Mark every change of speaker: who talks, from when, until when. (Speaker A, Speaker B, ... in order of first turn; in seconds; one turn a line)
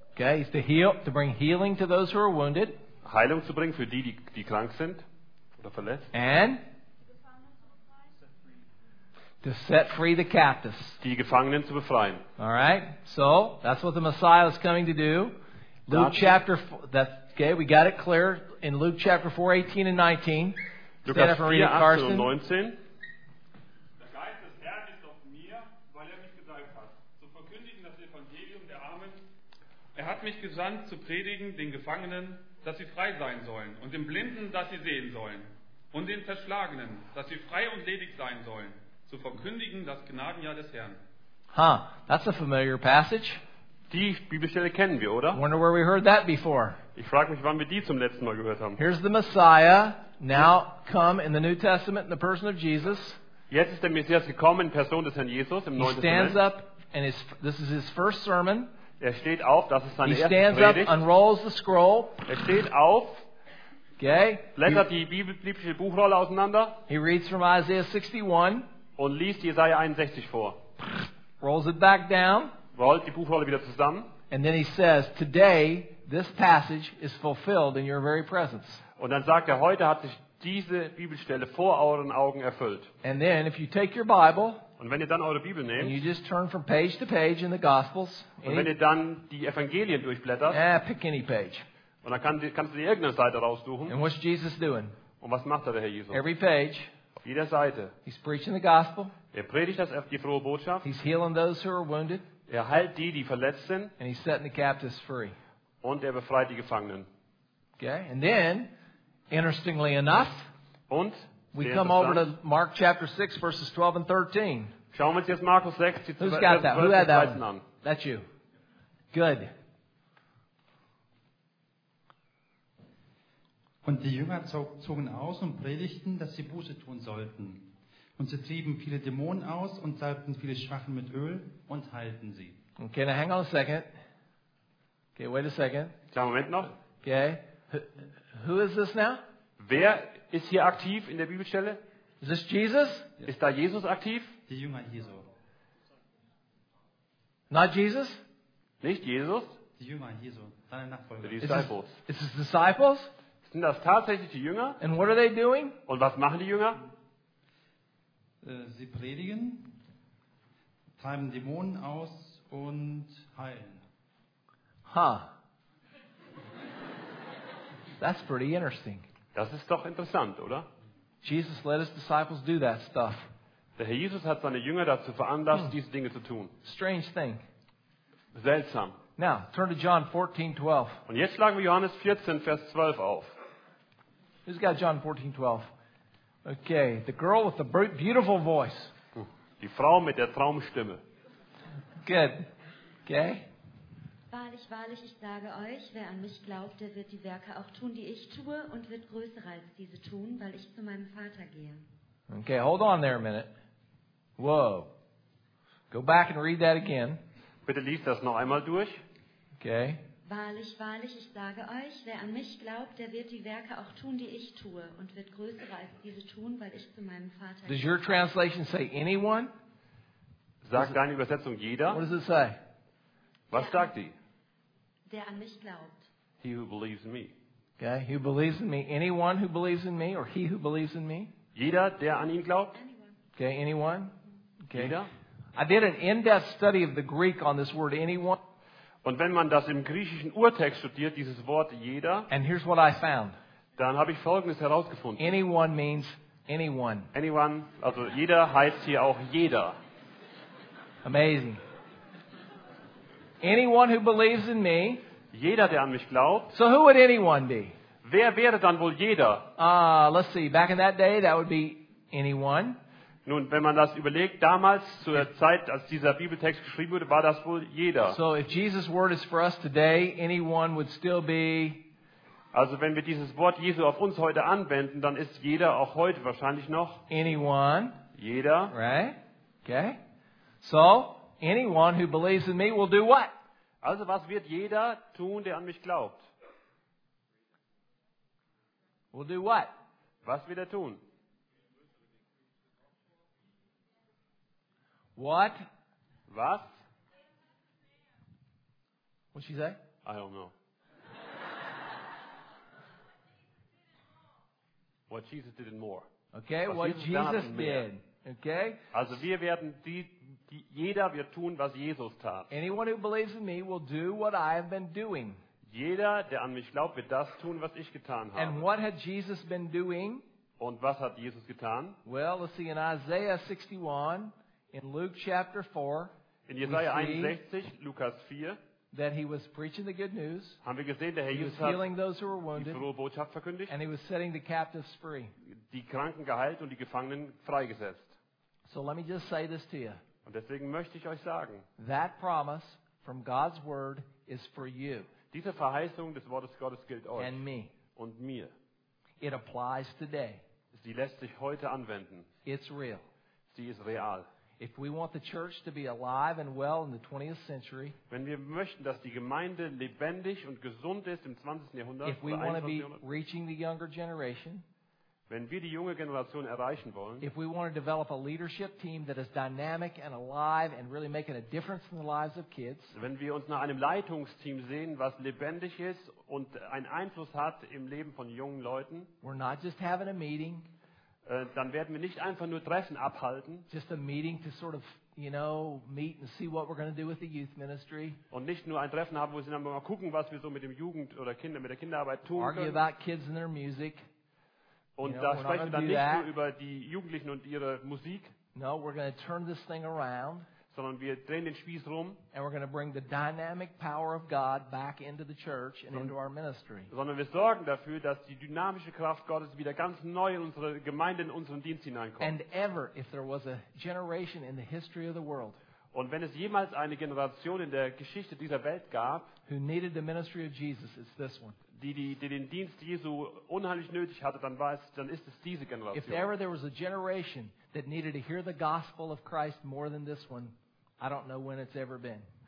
Speaker A: 0.2-2.8
Speaker B: 3.0-5.0
Speaker B: 5.6-6.1
Speaker A: 6.1-6.6
Speaker A: 9.4-11.0
Speaker B: 11.0-12.2
Speaker A: 12.4-22.3
Speaker B: 15.9-16.4
Speaker B: 21.1-22.8
Speaker C: 24.0-29.2
Speaker C: 29.9-41.0
Speaker A: 41.5-43.4
Speaker B: 43.9-45.4
Speaker A: 45.3-46.8
Speaker B: 47.0-48.8
Speaker A: 48.8-53.2
Speaker B: 53.5-56.4
Speaker A: 55.8-58.7
Speaker B: 59.0-61.0
Speaker A: 60.0-62.2
Speaker B: 62.3-63.3
Speaker A: 64.0-64.8
Speaker B: 64.5-66.8
Speaker A: 66.9-68.7
Speaker B: 69.0-70.6
Speaker A: 71.4-72.5
Speaker B: 72.8-74.1
Speaker A: 74.3-78.8
Speaker B: 79.0-82.9
Speaker A: 83.0-84.7
Speaker B: 84.8-86.0
Speaker A: 85.8-88.7
Speaker B: 88.5-90.6
Speaker A: 90.5-91.7
Speaker B: 92.0-94.0
Speaker A: 93.9-95.0
Speaker B: 95.2-96.2
Speaker A: 96.1-96.9
Speaker B: 97.2-97.9
Speaker A: 98.0-99.1
Speaker B: 99.3-100.9
Speaker A: 100.8-102.2
Speaker B: 102.5-104.0
Speaker A: 104.0-105.4
Speaker B: 105.8-107.1
Speaker A: 107.8-108.7
Speaker A: 109.3-110.5
Speaker B: 110.9-112.3
Speaker A: 111.5-114.7
Speaker B: 114.9-117.7
Speaker A: 116.2-118.3
Speaker A: 119.1-119.5
Speaker D: 123.8-132.6
Speaker A: 132.8-133.9
Speaker A: 135.2-136.0
Speaker B: 136.1-136.7
Speaker A: 137.0-139.2
Speaker B: 139.6-141.8
Speaker A: 142.2-143.1
Speaker B: 143.2-144.3
Speaker D: 144.5-145.3
Speaker A: 147.5-148.2
Speaker B: 148.8-149.6
Speaker D: 149.8-151.5
Speaker B: 151.2-152.0
Speaker A: 151.4-153.1
Speaker B: 153.4-154.8
Speaker A: 154.8-155.8
Speaker B: 155.9-156.8
Speaker D: 158.4-159.8
Speaker D: 161.0-163.8
Speaker A: 164.9-165.3
Speaker A: 168.0-169.1
Speaker B: 169.3-170.7
Speaker A: 171.2-173.3
Speaker B: 173.8-176.5
Speaker A: 176.6-177.4
Speaker B: 178.3-179.0
Speaker A: 179.2-181.0
Speaker B: 181.1-183.3
Speaker A: 184.5-185.7
Speaker A: 186.4-188.9
Speaker B: 189.2-191.0
Speaker A: 192.0-192.5
Speaker A: 193.1-193.5
Speaker E: 194.3-201.8
Speaker A: 202.3-203.5
Speaker A: 204.4-204.9
Speaker A: 205.9-207.2
Speaker B: 207.7-209.0
Speaker A: 209.6-210.0
Speaker E: 210.2-217.9
Speaker A: 217.7-219.5
Speaker B: 220.6-222.0
Speaker A: 221.9-222.6
Speaker B: 223.5-224.2
Speaker E: 223.5-223.9
Speaker E: 225.1-226.1
Speaker B: 226.4-227.3
Speaker A: 227.8-231.3
Speaker B: 231.6-232.8
Speaker E: 232.8-233.2
Speaker A: 233.4-235.0
Speaker B: 234.7-235.1
Speaker A: 235.6-238.4
Speaker B: 239.0-242.3
Speaker A: 242.3-243.4
Speaker B: 243.8-245.2
Speaker A: 245.2-247.1
Speaker B: 247.1-249.8
Speaker A: 251.0-251.6
Speaker A: 253.4-255.0
Speaker B: 255.3-256.5
Speaker A: 256.5-257.8
Speaker B: 258.0-259.5
Speaker A: 259.6-262.8
Speaker B: 263.3-268.2
Speaker A: 268.1-271.9
Speaker B: 272.5-277.1
Speaker A: 277.1-278.0
Speaker B: 278.1-278.8
Speaker A: 278.7-280.0
Speaker A: 280.6-283.3
Speaker B: 283.8-286.3
Speaker A: 289.1-289.7
Speaker B: 290.2-291.0
Speaker A: 295.2-295.6
Speaker B: 296.3-296.7
Speaker A: 299.3-299.8
Speaker B: 300.0-300.5
Speaker B: 305.1-306.1
Speaker A: 306.3-308.8
Speaker B: 306.7-307.9
Speaker B: 308.9-312.5
Speaker A: 312.5-315.4
Speaker B: 315.7-318.6
Speaker A: 318.4-320.2
Speaker B: 320.6-322.0
Speaker A: 322.1-327.4
Speaker B: 326.5-328.6
Speaker A: 328.9-330.6
Speaker B: 330.6-331.9
Speaker A: 331.3-332.9
Speaker B: 332.5-333.7
Speaker A: 333.7-335.3
Speaker B: 335.4-338.1
Speaker A: 338.7-340.0
Speaker B: 340.2-341.7
Speaker A: 341.8-345.1
Speaker B: 345.3-347.4
Speaker A: 347.2-347.7
Speaker B: 348.0-348.5
Speaker A: 349.2-350.4
Speaker B: 350.7-352.3
Speaker A: 352.4-353.1
Speaker B: 353.5-354.3
Speaker A: 354.6-358.0
Speaker B: 358.1-363.0
Speaker A: 362.0-364.6
Speaker B: 365.3-367.3
Speaker A: 367.2-372.9
Speaker B: 372.9-379.1
Speaker A: 379.2-380.7
Speaker B: 381.2-383.7
Speaker A: 383.7-388.2
Speaker B: 388.3-392.8
Speaker A: 392.4-394.1
Speaker B: 395.0-398.3
Speaker A: 395.0-396.3
Speaker A: 398.5-400.5
Speaker B: 400.7-402.2
Speaker A: 402.3-406.9
Speaker B: 406.9-412.4
Speaker A: 412.2-415.6
Speaker B: 415.9-419.3
Speaker A: 419.5-421.6
Speaker B: 421.7-426.3
Speaker A: 425.9-432.3